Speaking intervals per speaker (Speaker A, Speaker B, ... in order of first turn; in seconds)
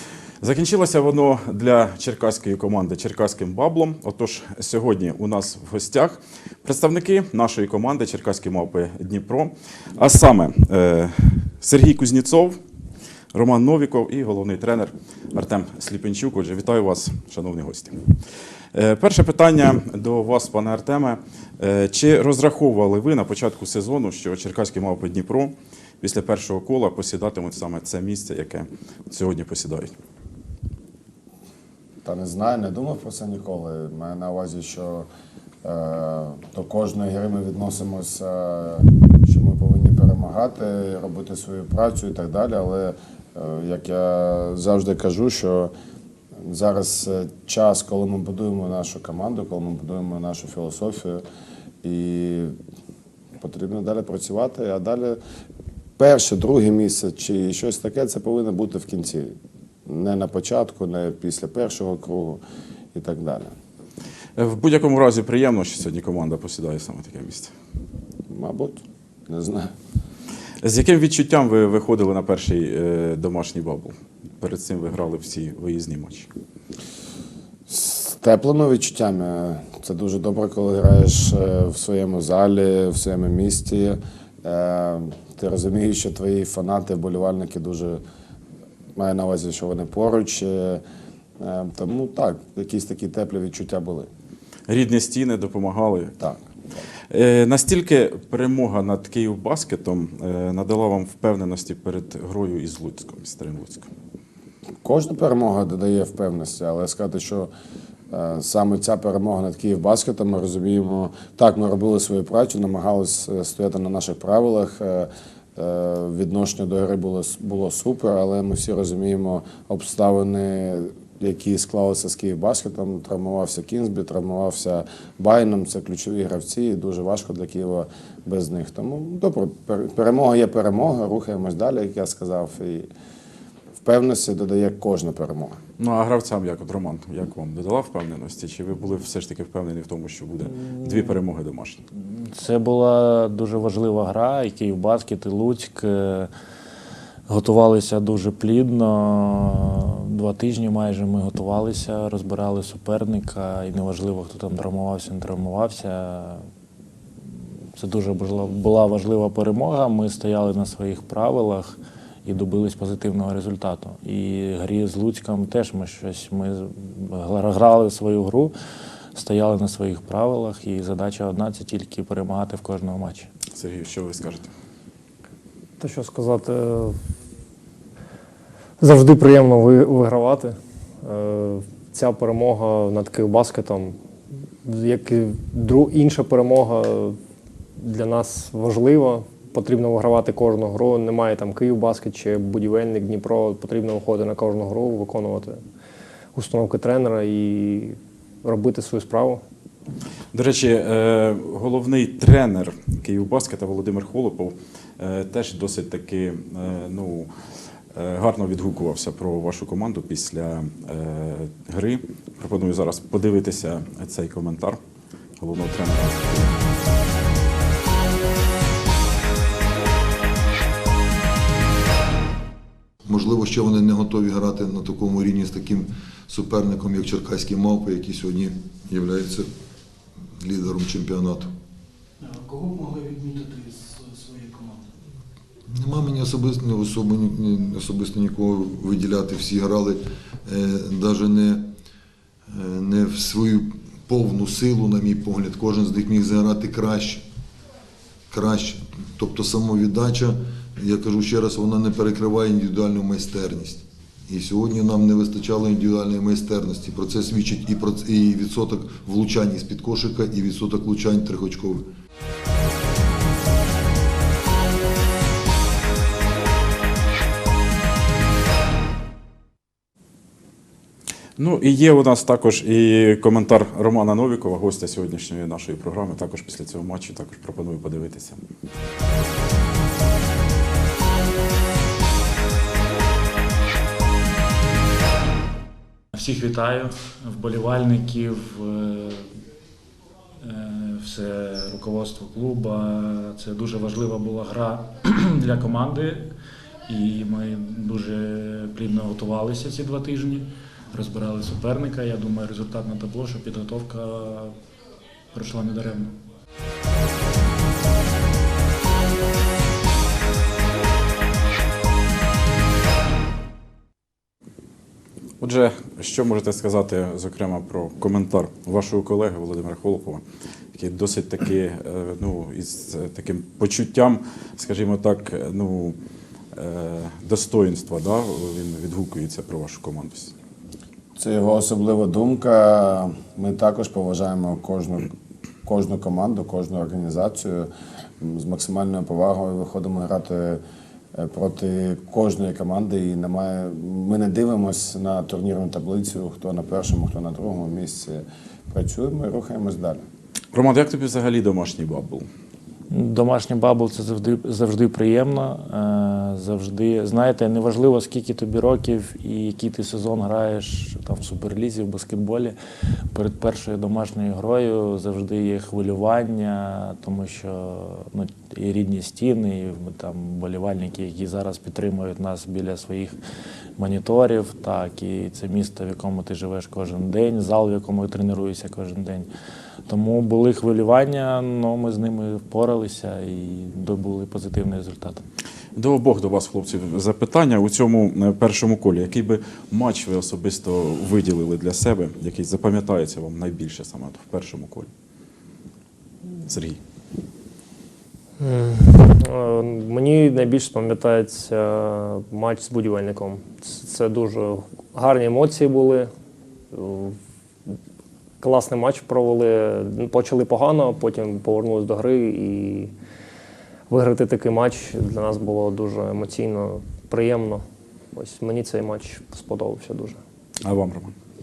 Speaker A: 0.4-12.6, 13.3-18.2, 18.7-29.9, 64.3-67.5, 70.6-76.3, 94.7-96.2, 97.1-103.9, 135.8-141.8, 173.5-174.5, 200.3-207.3, 207.9-214.8, 215.4-216.6, 271.4-278.4, 315.4-320.2, 320.7-325.9, 326.5-330.3, 350.5-352.3, 385.8-394.9, 396.5-396.8, 420.6-421.1
Speaker B: 32.0-35.1, 35.6-45.7, 46.4-51.2, 51.8-52.5, 53.4-55.2, 56.0-62.4, 62.9-63.5, 68.3-69.7, 77.7-88.0, 89.0-90.8, 91.4-94.1, 96.2-96.8, 104.8-107.5, 108.1-132.9, 133.8-135.6, 331.1-335.1, 335.6-340.6, 341.1-350.0
Speaker C: 142.2-146.3, 147.3-156.4, 157.8-168.5, 169.1-173.3, 286.1-289.3, 290.4-296.3, 296.9-304.5, 305.3-306.1, 352.9-362.6, 363.1-373.1, 373.8-379.3, 379.9-385.2
Speaker D: 175.8-177.0, 178.8-183.9, 184.6-187.2, 187.8-195.6, 196.3-199.4, 398.4-406.1, 406.7-407.2, 408.4-412.9, 413.9-420.2
Speaker E: 223.0-229.5, 230.3-231.5, 235.7-241.7, 242.5-247.2, 248.3-261.9
Speaker F: 232.2-234.9